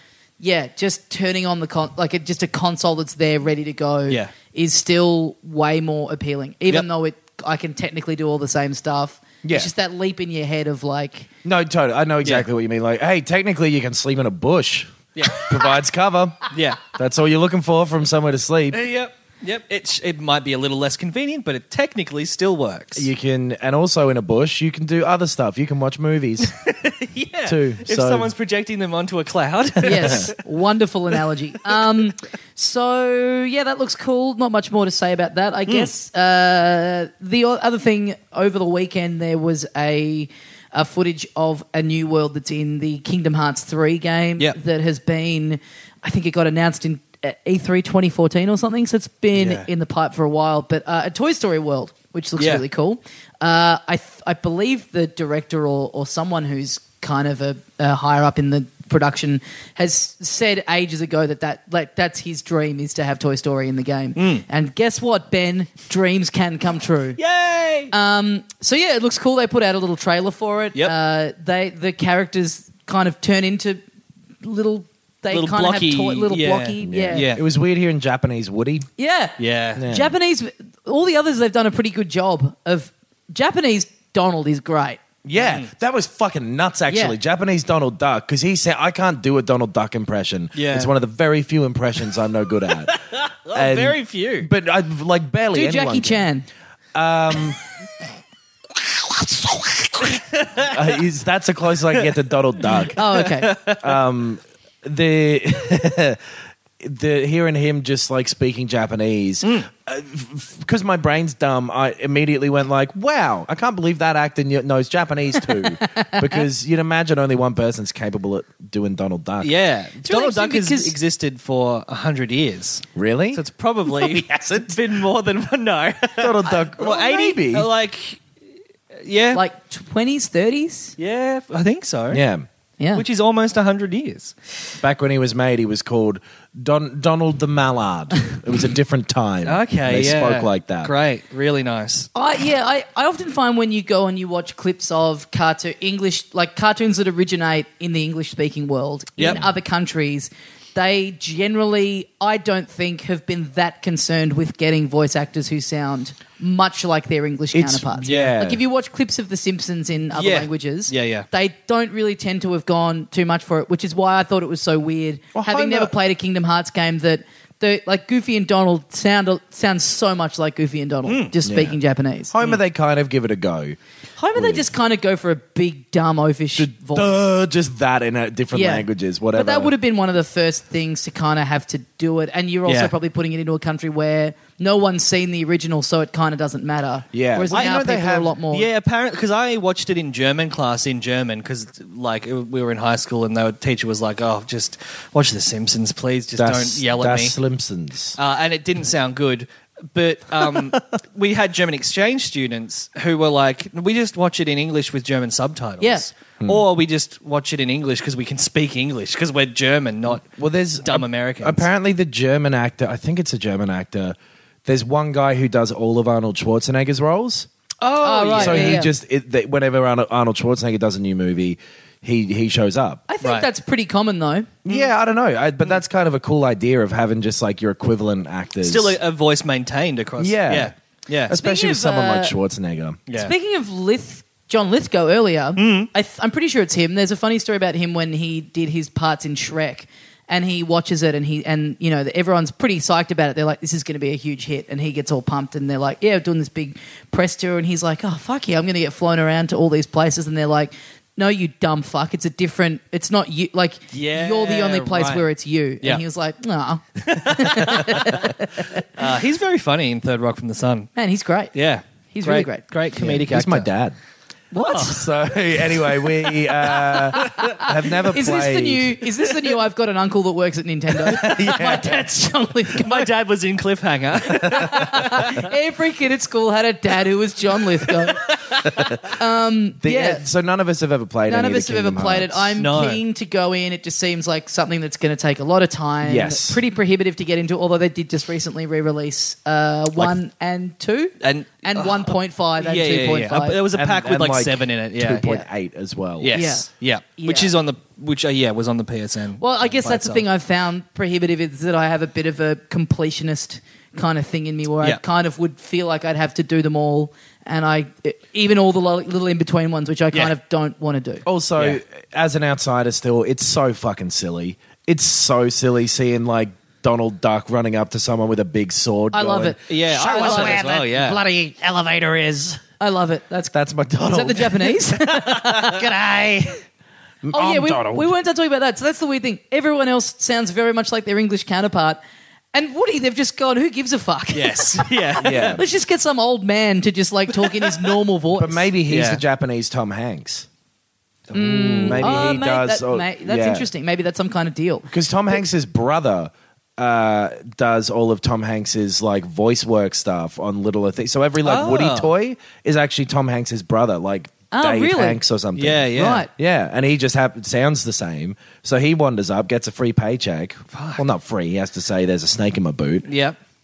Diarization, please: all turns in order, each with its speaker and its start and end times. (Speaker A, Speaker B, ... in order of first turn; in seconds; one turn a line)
Speaker A: 0.4-11.3
Speaker B: 9.4-9.7
Speaker B: 11.4-18.8
Speaker C: 15.2-15.5
Speaker C: 16.5-16.9
Speaker C: 18.7-23.1
Speaker B: 22.9-26.6
Speaker C: 26.5-30.3
Speaker B: 27.4-28.3
Speaker A: 29.8-67.2
Speaker B: 29.9-30.2
Speaker C: 49.3-49.7
Speaker C: 52.4-52.6
Speaker C: 64.2-64.4
Speaker C: 67.2-67.9
Speaker A: 67.9-73.8
Speaker A: 74.4-77.3
Speaker C: 75.3-77.4
Speaker B: 76.8-78.9
Speaker A: 79.0-85.0
Speaker C: 79.4-79.8
Speaker B: 79.8-80.1
Speaker B: 85.2-93.0
Speaker C: 85.4-85.7
Speaker A: 86.9-87.2
Speaker C: 90.5-90.9
Speaker C: 92.9-94.5
Speaker B: 93.5-96.2
Speaker A: 95.5-96.5
Speaker B: 96.9-97.6
Speaker C: 100.0-100.8
Speaker B: 100.7-103.0
Speaker C: 102.0-104.0
Speaker A: 103.0-103.5
Speaker B: 103.7-106.2
Speaker B: 106.8-119.5
Speaker C: 109.4-109.7
Speaker A: 115.7-116.4
Speaker C: 119.4-128.2
Speaker A: 120.0-120.9
Speaker B: 123.0-123.4
Speaker B: 124.0-124.8
Speaker B: 126.2-127.7
Speaker C: 129.0-129.4
Speaker A: 129.3-130.9
Speaker C: 131.0-132.2
Speaker B: 132.1-132.4
Speaker A: 132.8-133.0
Speaker C: 132.9-134.4
Speaker B: 134.8-140.9
Speaker C: 139.4-142.1
Speaker A: 142.1-172.3
Speaker B: 157.5-158.6
Speaker C: 158.0-158.4
Speaker C: 160.1-161.3
Speaker B: 165.3-165.9
Speaker C: 171.1-171.3
Speaker B: 171.4-171.8
Speaker B: 172.3-173.8
Speaker A: 174.2-177.1
Speaker B: 174.3-174.6
Speaker B: 176.6-179.7
Speaker A: 178.5-188.7
Speaker C: 182.7-182.9
Speaker B: 187.1-188.3
Speaker C: 187.5-197.3
Speaker B: 196.4-198.2
Speaker C: 198.2-210.2
Speaker B: 210.2-217.5
Speaker C: 210.8-211.7
Speaker C: 217.8-218.8
Speaker A: 218.0-218.9
Speaker B: 218.3-223.0
Speaker A: 223.1-224.5
Speaker C: 223.2-223.5
Speaker B: 224.6-229.0
Speaker C: 228.6-231.3
Speaker B: 230.2-230.7
Speaker B: 231.2-233.0
Speaker A: 231.3-232.3
Speaker A: 233.1-258.8
Speaker C: 235.6-235.9
Speaker C: 253.9-255.2
Speaker C: 257.0-258.3
Speaker C: 258.9-260.9
Speaker A: 260.9-261.5
Speaker C: 261.5-263.7
Speaker A: 262.1-262.6
Speaker B: 262.9-264.0
Speaker A: 264.5-265.0
Speaker C: 264.6-264.9
Speaker B: 264.7-269.0
Speaker C: 266.8-267.6
Speaker A: 267.2-273.1
Speaker B: 271.1-271.9
Speaker C: 271.2-271.7
Speaker C: 272.8-275.4
Speaker A: 274.3-278.3
Speaker B: 274.4-274.9
Speaker C: 278.0-278.7
Speaker B: 278.7-279.0
Speaker A: 279.1-280.2
Speaker B: 279.8-282.6
Speaker A: 281.3-293.6
Speaker C: 282.6-283.0
Speaker B: 286.0-286.6
Speaker C: 291.2-295.3
Speaker B: 293.7-296.4
Speaker C: 296.2-300.2
Speaker A: 296.3-297.5
Speaker A: 299.4-311.2
Speaker B: 311.2-319.6
Speaker A: 319.1-320.6
Speaker C: 319.7-321.3
Speaker D: 319.9-322.6
Speaker B: 320.2-320.6
Speaker A: 322.8-325.9
Speaker B: 323.5-324.8
Speaker D: 325.8-326.6
Speaker B: 327.2-328.1
Speaker A: 327.3-332.0
Speaker A: 332.5-338.6
Speaker C: 334.3-335.6
Speaker B: 335.2-335.6
Speaker C: 337.6-337.9
Speaker B: 338.3-340.5
Speaker C: 338.9-339.2
Speaker C: 341.3-342.3
Speaker A: 341.3-344.9
Speaker B: 341.3-343.7
Speaker B: 344.9-363.1
Speaker C: 351.4-352.1
Speaker A: 354.5-355.2
Speaker C: 355.6-356.2
Speaker A: 355.9-356.3
Speaker C: 360.7-361.0
Speaker C: 363.1-363.4